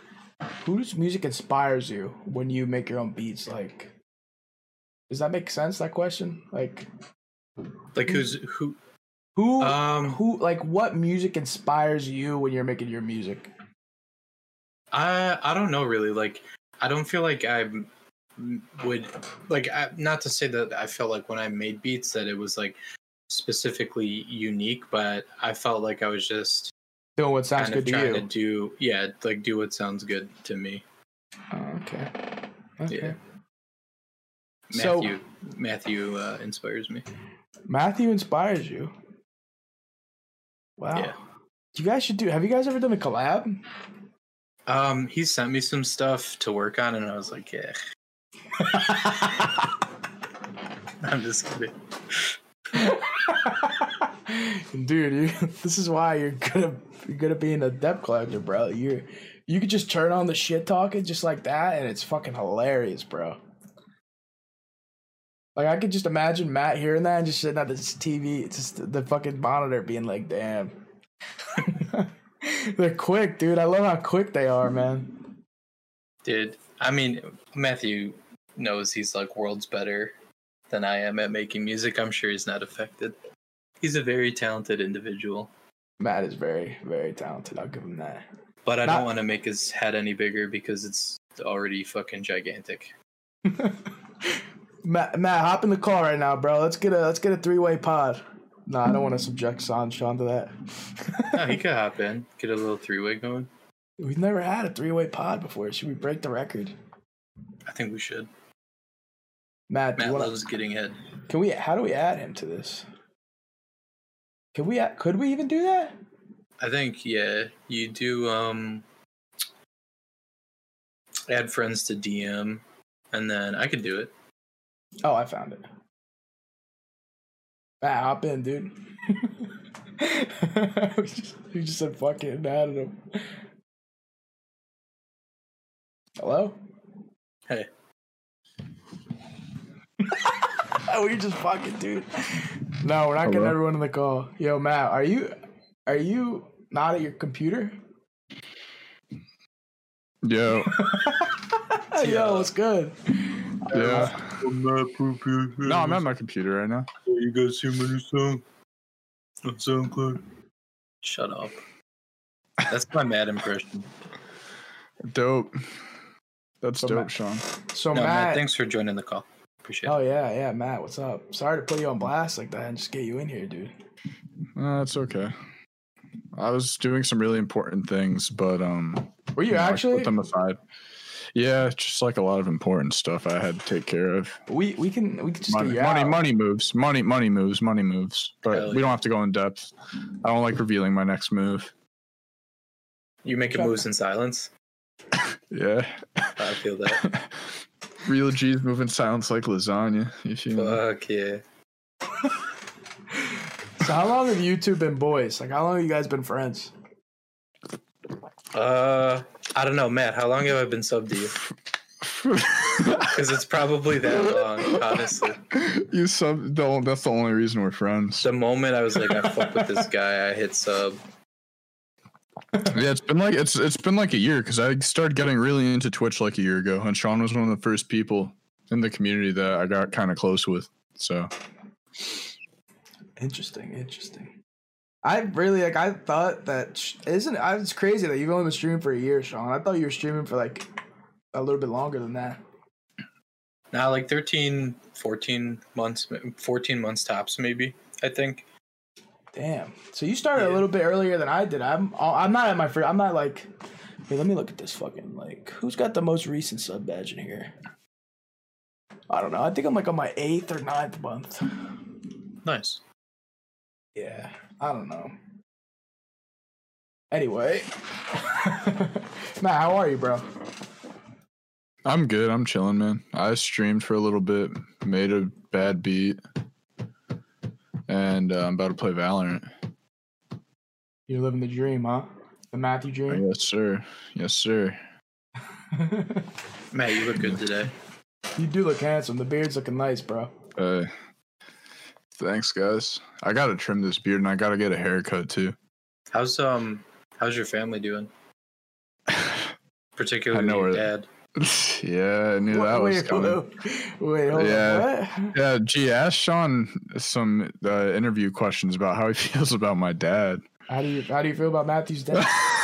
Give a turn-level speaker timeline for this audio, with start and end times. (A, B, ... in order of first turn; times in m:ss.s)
0:00.6-0:04.0 A
0:05.1-0:06.9 A
0:08.0-0:08.8 B
0:09.4-0:13.5 A
0:09.6-0:10.2 B
0:14.9-0:26.7 B
0:27.2-0:28.3 A
0:27.6-0:30.8 B
0:31.5-0:33.2 A
0:34.7-0:35.1 A
0:34.7-0:37.0 B
0:37.7-0:38.9 A
0:40.8-0:41.2 A
0:41.7-0:43.6 A
0:44.7-0:47.8 B
0:48.6-0:49.5 A
0:51.0-0:52.4 B
0:52.7-1:03.4 A
1:05.6-1:10.8 A
1:11.6-1:15.3 A
1:16.2-1:20.2 B
1:20.7-1:23.2 B
1:23.8-1:25.5 B
1:26.0-1:28.3 A
1:28.6-1:32.9 B
1:33.4-1:41.4 A
1:41.3-1:43.5 B
1:44.0-1:46.8 A
1:47.7-1:48.3 B
1:49.7-1:50.3 A
1:50.0-1:51.0 B
1:51.3-1:52.9 A
1:54.5-1:56.0 A
1:56.6-1:58.8 B
2:01.3-2:04.1 B
2:05.0-2:05.6 A
2:07.8-2:13.3 A
2:16.2-2:16.6 A
2:20.0-2:27.8 A
2:23.2-2:23.6 C
2:30.2-2:30.8 C
2:30.7-2:34.2 A
2:32.0-2:32.5 B
2:33.7-2:36.1 B
2:33.7-2:34.4 C
2:35.6-2:36.9 C
2:37.1-2:38.4 B
2:39.4-2:40.2 B
2:41.0-2:41.6 B
2:42.7-2:43.9 B
2:45.0-2:45.7 C
2:46.6-2:47.4 C
2:46.8-2:47.1 A
2:47.7-2:48.4 A
2:47.9-2:50.0 B
2:49.9-2:53.7 A
2:54.6-2:55.3 C
2:56.4-3:00.6 C
2:59.4-3:00.1 A
3:01.3-3:04.4 C
3:04.5-3:06.2 A
3:05.5-3:11.7 C
3:08.5-3:09.0 B
3:13.2-3:14.5 B
3:15.5-3:16.4 C
3:16.4-3:17.0 B
3:17.0-3:17.3 C
3:18.0-3:20.8 C
3:20.5-3:21.4 B
3:23.8-3:26.7 A
3:28.5-3:31.4 B
3:32.0-3:33.1 C
3:33.1-3:35.4 B
3:35.5-3:38.3 C
3:38.2-3:41.0 B
3:39.3-3:39.6 C
3:42.6-3:51.3 C
3:53.2-3:54.4 A
3:55.0-4:00.7 A
4:01.3-4:02.4 A
4:03.7-4:08.4 B
4:09.3-4:13.5 A
4:10.4-4:10.6 B
4:14.1-4:17.6 A
4:19.1-4:21.8 A
4:22.4-4:22.8 B
4:24.0-4:25.2 A
4:27.1-4:30.3 A
4:31.8-4:36.2 C
4:37.9-4:39.5 C
4:41.1-4:43.2 A
4:43.1-4:44.8 C
4:45.7-4:46.3 A
4:46.7-4:47.7 B
4:48.4-4:50.3 A
4:50.6-4:50.9 C
4:52.2-4:55.6 C
4:56.1-4:58.1 B
4:59.1-4:59.5 C
5:00.0-5:01.1 B
5:00.3-5:03.4 C
5:02.5-5:05.4 A
5:04.3-5:10.4 C
5:10.7-5:12.3 A